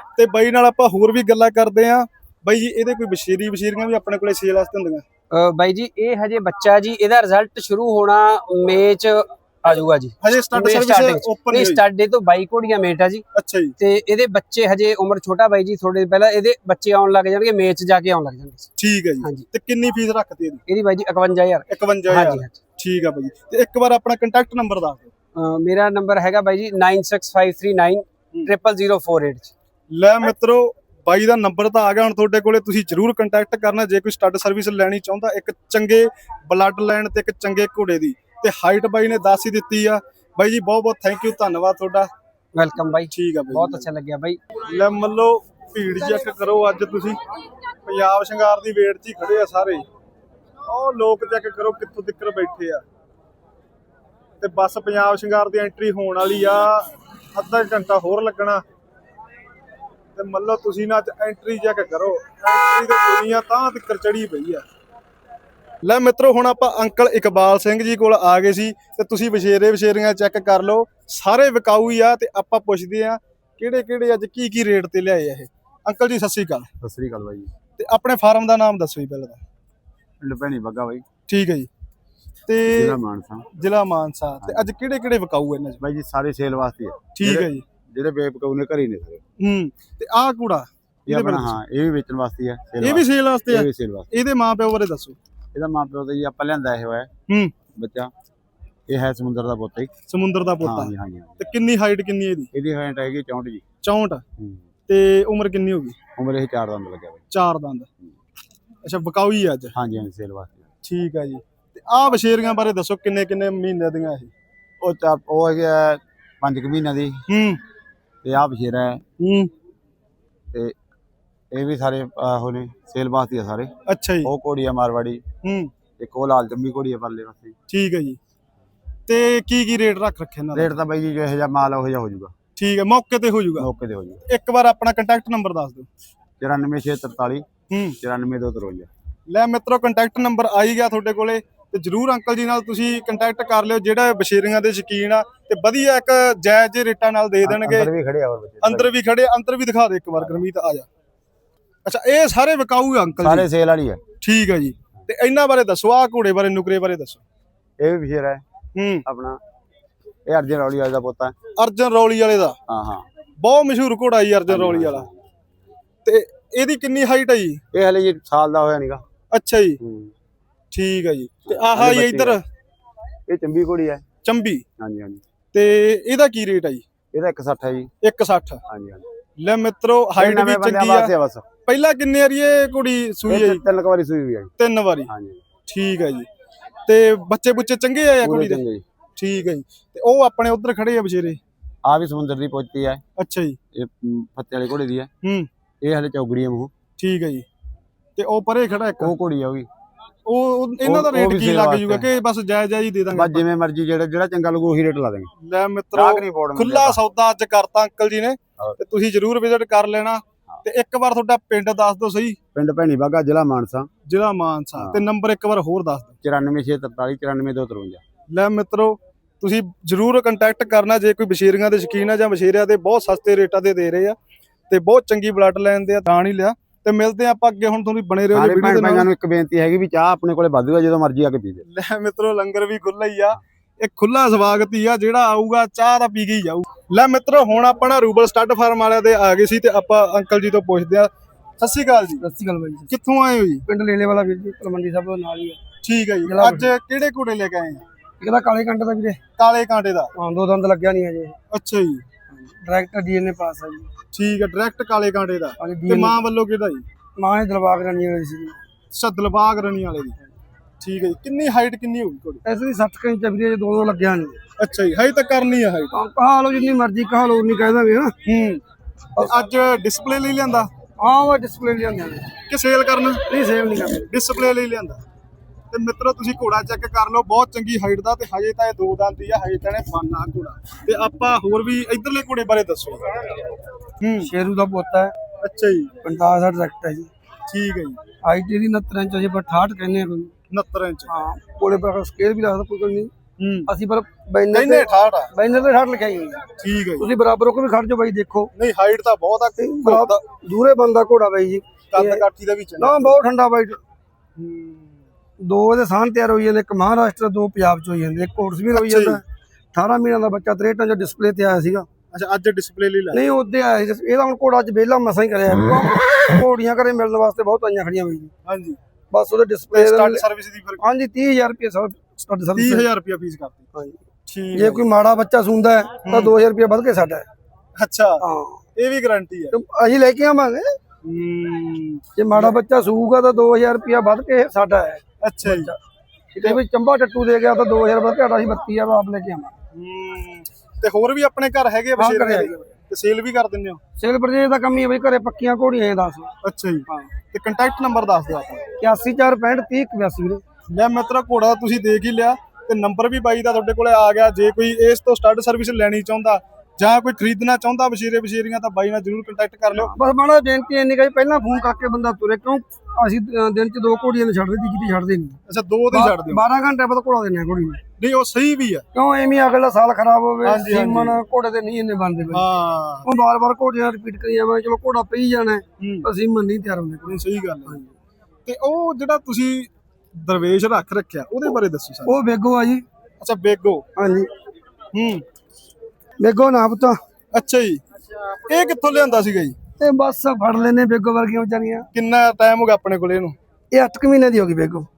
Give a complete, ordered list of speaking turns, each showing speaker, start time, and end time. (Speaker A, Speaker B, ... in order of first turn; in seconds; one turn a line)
Speaker A: 0.1-5.0
Speaker B: 5.3-13.2
Speaker A: 10.2-11.8
Speaker A: 13.3-13.7
Speaker B: 13.8-18.7
Speaker A: 18.8-20.6
Speaker B: 19.2-19.5
Speaker B: 20.7-22.6
Speaker A: 21.7-25.1
Speaker B: 25.3-29.5
Speaker A: 29.9-42.1
Speaker B: 42.5-44.4
Speaker A: 43.1-43.9
Speaker A: 44.7-47.2
Speaker A: 47.8-49.8
Speaker A: 50.7-52.8
Speaker A: 54.4-58.6
Speaker A: 60.1-64.6
Speaker A: 65.8-76.7
Speaker C: 76.8-77.5
Speaker A: 77.8-79.4
Speaker C: 80.2-81.1
Speaker A: 81.3-81.7
Speaker A: 82.5-83.0
Speaker C: 82.7-83.5
Speaker A: 83.5-85.8
Speaker C: 85.8-89.2
Speaker A: 87.1-87.6
Speaker A: 89.4-91.5
Speaker C: 91.1-94.1
Speaker A: 92.8-95.2
Speaker C: 95.5-97.1
Speaker A: 97.3-97.5
Speaker C: 97.7-98.1
Speaker C: 98.9-100.0
Speaker A: 100.1-102.5
Speaker C: 100.6-101.4
Speaker C: 102.5-103.7
Speaker A: 103.8-104.2
Speaker C: 104.4-104.6
Speaker A: 104.9-106.0
Speaker C: 106.2-107.2
Speaker A: 107.3-107.9
Speaker A: 108.8-109.7
Speaker C: 109.7-110.7
Speaker A: 110.8-114.3
Speaker C: 114.8-117.2
Speaker A: 117.3-117.6
Speaker C: 118.2-119.0
Speaker A: 119.2-119.5
Speaker C: 121.5-123.7
Speaker A: 123.9-124.3
Speaker C: 124.2-125.2
Speaker A: 125.4-125.7
Speaker C: 126.0-127.5
Speaker A: 127.7-128.2
Speaker A: 129.1-130.8
Speaker C: 130.5-132.3
Speaker A: 132.6-133.7
Speaker C: 133.6-134.2
Speaker A: 134.3-135.9
Speaker C: 136.4-137.5
Speaker A: 137.7-137.9
Speaker C: 138.0-138.9
Speaker A: 139.3-147.9
Speaker C: 147.4-148.9
Speaker A: 148.6-150.9
Speaker C: 150.2-150.4
Speaker A: 151.8-153.5
Speaker C: 153.2-154.0
Speaker A: 154.2-157.2
Speaker C: 157.8-158.4
Speaker A: 158.8-159.1
Speaker C: 159.1-159.4
Speaker C: 160.2-161.3
Speaker A: 161.6-162.6
Speaker C: 162.7-163.0
Speaker A: 163.4-165.1
Speaker C: 164.5-165.2
Speaker A: 166.0-167.6
Speaker C: 167.7-169.0
Speaker A: 169.3-169.8
Speaker C: 169.8-170.1
Speaker A: 170.7-172.4
Speaker C: 171.5-172.4
Speaker C: 173.3-174.1
Speaker A: 174.2-174.6
Speaker C: 174.8-175.2
Speaker A: 175.5-176.8
Speaker C: 177.1-177.9
Speaker A: 178.0-178.6
Speaker C: 178.7-179.0
Speaker A: 179.4-181.1
Speaker C: 180.2-181.5
Speaker A: 181.7-183.6
Speaker C: 183.3-184.5
Speaker A: 184.6-185.1
Speaker C: 185.1-185.4
Speaker A: 185.7-186.3
Speaker A: 186.9-188.6
Speaker C: 188.2-188.8
Speaker A: 189.2-191.4
Speaker C: 191.8-193.0
Speaker A: 193.2-193.6
Speaker C: 193.7-195.1
Speaker A: 195.2-195.5
Speaker C: 195.8-196.7
Speaker A: 197.0-197.4
Speaker A: 198.2-199.1
Speaker C: 199.0-199.7
Speaker A: 200.2-203.4
Speaker C: 200.8-202.1
Speaker C: 203.1-205.3
Speaker A: 205.4-212.4
Speaker C: 205.9-207.0
Speaker C: 212.5-213.9
Speaker A: 214.1-216.1
Speaker C: 216.2-218.0
Speaker A: 218.3-224.2
Speaker A: 224.7-229.1
Speaker C: 228.3-231.7
Speaker A: 231.7-242.2
Speaker D: 242.2-242.9
Speaker A: 242.9-243.6
Speaker D: 243.7-245.6
Speaker A: 245.8-247.8
Speaker D: 246.2-246.7
Speaker D: 248.2-249.2
Speaker A: 249.4-250.1
Speaker D: 250.1-251.3
Speaker A: 251.5-252.0
Speaker D: 252.3-253.9
Speaker A: 254.1-256.8
Speaker D: 255.6-256.2
Speaker D: 257.2-258.6
Speaker A: 258.9-260.2
Speaker A: 260.8-262.4
Speaker D: 262.4-264.4
Speaker A: 264.6-265.9
Speaker D: 265.9-268.1
Speaker A: 268.2-268.6
Speaker A: 269.2-270.7
Speaker D: 271.0-272.3
Speaker A: 272.5-273.2
Speaker D: 273.3-274.1
Speaker A: 274.1-275.0
Speaker A: 275.7-283.0
Speaker A: 284.0-284.3
Speaker D: 284.2-285.1
Speaker A: 285.4-285.9
Speaker D: 286.0-287.1
Speaker A: 287.5-288.0
Speaker D: 288.2-290.3
Speaker A: 290.5-291.1
Speaker D: 291.1-293.1
Speaker A: 293.4-293.7
Speaker D: 293.7-298.5
Speaker A: 294.5-295.3
Speaker A: 296.6-297.1
Speaker A: 298.6-300.2
Speaker D: 299.6-302.2
Speaker A: 301.9-303.2
Speaker D: 302.8-303.8
Speaker A: 304.4-304.9
Speaker D: 305.4-311.9
Speaker A: 308.7-309.2
Speaker A: 312.1-313.2
Speaker D: 313.1-318.3
Speaker A: 318.4-318.8
Speaker D: 319.1-322.9
Speaker A: 319.7-320.8
Speaker A: 322.6-323.6
Speaker D: 323.7-324.0
Speaker A: 324.3-324.8
Speaker D: 324.5-327.2
Speaker A: 326.0-326.3
Speaker A: 327.8-328.2
Speaker D: 328.2-328.6
Speaker A: 328.8-329.5
Speaker D: 329.5-330.7
Speaker A: 331.0-332.5
Speaker D: 332.2-335.7
Speaker A: 335.2-335.7
Speaker D: 336.3-339.5
Speaker A: 339.7-343.8
Speaker D: 342.0-342.7
Speaker D: 344.0-346.3
Speaker A: 346.4-348.6
Speaker D: 346.9-347.1
Speaker D: 348.8-350.4
Speaker A: 350.7-359.9
Speaker D: 359.9-365.4
Speaker A: 365.5-366.4
Speaker D: 365.9-367.8
Speaker A: 368.0-368.8
Speaker D: 368.9-372.4
Speaker A: 370.4-371.2
Speaker A: 372.3-373.1
Speaker D: 373.0-377.8
Speaker A: 375.8-376.1
Speaker A: 377.0-377.8
Speaker A: 378.4-382.1
Speaker D: 382.1-382.8
Speaker A: 383.2-383.8
Speaker D: 383.9-384.3
Speaker A: 384.9-385.2
Speaker D: 386.2-387.0
Speaker A: 387.3-387.8
Speaker A: 388.5-389.6
Speaker D: 389.8-391.9
Speaker A: 391.9-393.3
Speaker D: 393.7-394.9